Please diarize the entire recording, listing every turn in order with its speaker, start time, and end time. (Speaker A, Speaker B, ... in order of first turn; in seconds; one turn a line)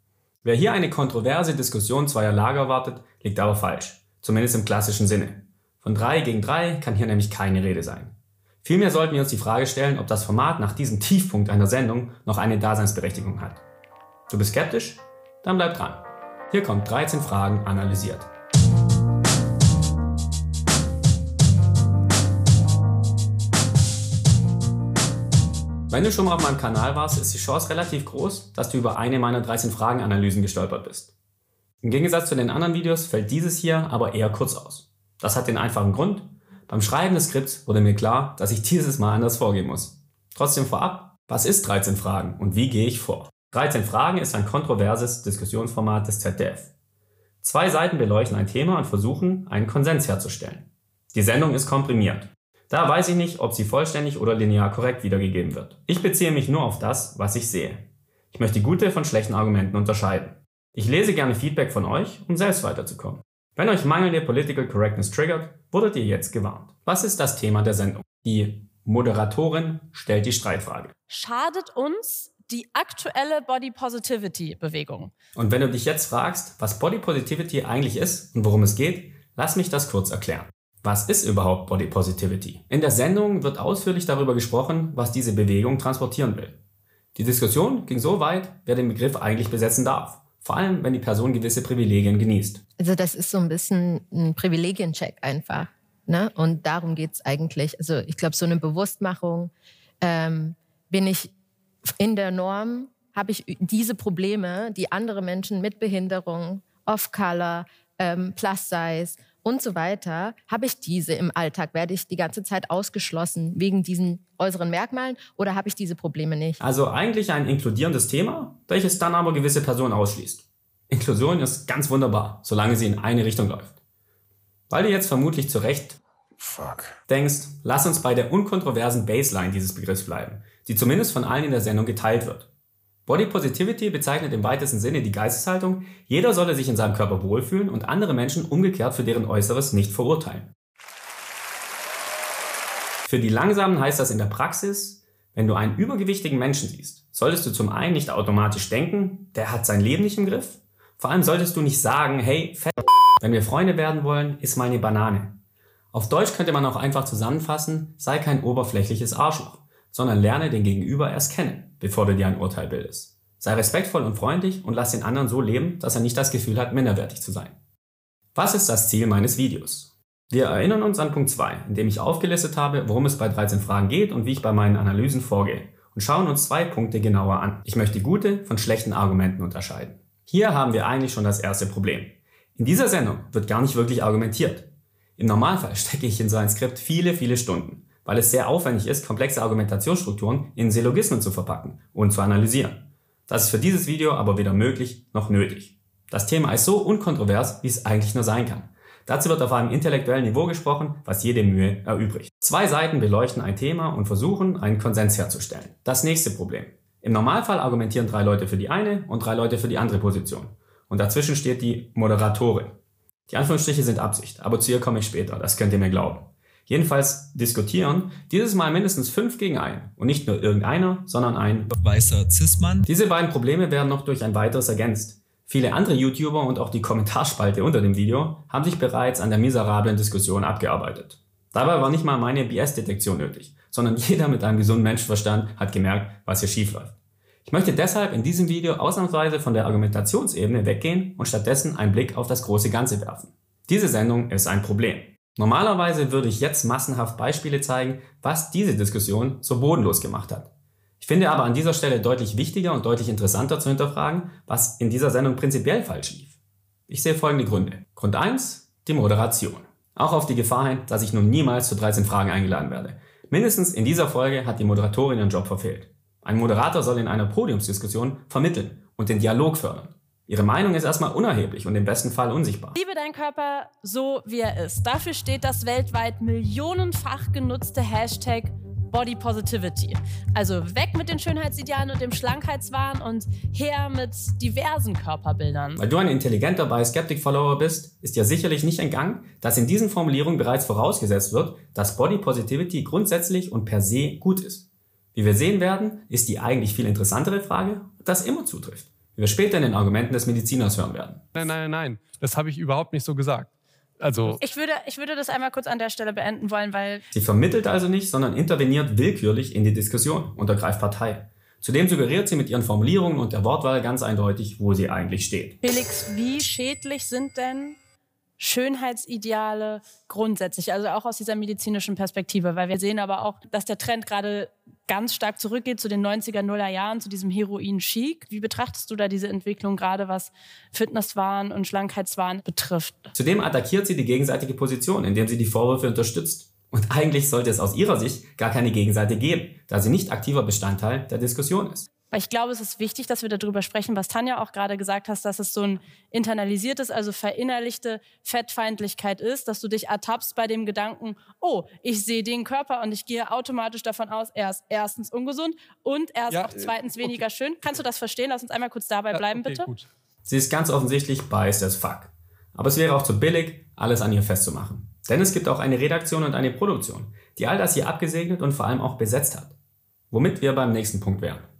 Speaker A: 0.4-13.6
Speaker A: 14.3-18.3
Speaker A: 25.9-31.1
Speaker A: 31.8-46.7
Speaker A: 47.4-70.9
Speaker B: 71.1-75.1
Speaker A: 75.3-86.6
Speaker A: 87.1-92.6
Speaker C: 92.8-99.5
Speaker C: 100.0-101.3
Speaker C: 102.0-116.6
Speaker A: 116.6-123.8
Speaker A: 124.7-126.0
Speaker A: 127.1-132.5
Speaker A: 133.1-140.5
Speaker A: 143.0-155.4
Speaker A: 155.9-167.5
Speaker A: 168.3-212.8
Speaker A: 213.3-221.7
Speaker A: 222.8-236.9
Speaker A: 237.4-256.3
Speaker A: 256.9-272.8
Speaker B: 272.8-285.8
Speaker A: 285.8-301.5
Speaker D: 301.4-304.4
Speaker B: 304.4-307.0
Speaker A: 307.1-315.6
Speaker B: 315.6-317.8
Speaker B: 318.4-333.1
Speaker A: 333.1-341.9
Speaker B: 342.1-359.7
Speaker D: 356.3-357.2
Speaker D: 359.1-359.9
Speaker A: 360.2-369.5
Speaker A: 370.1-371.5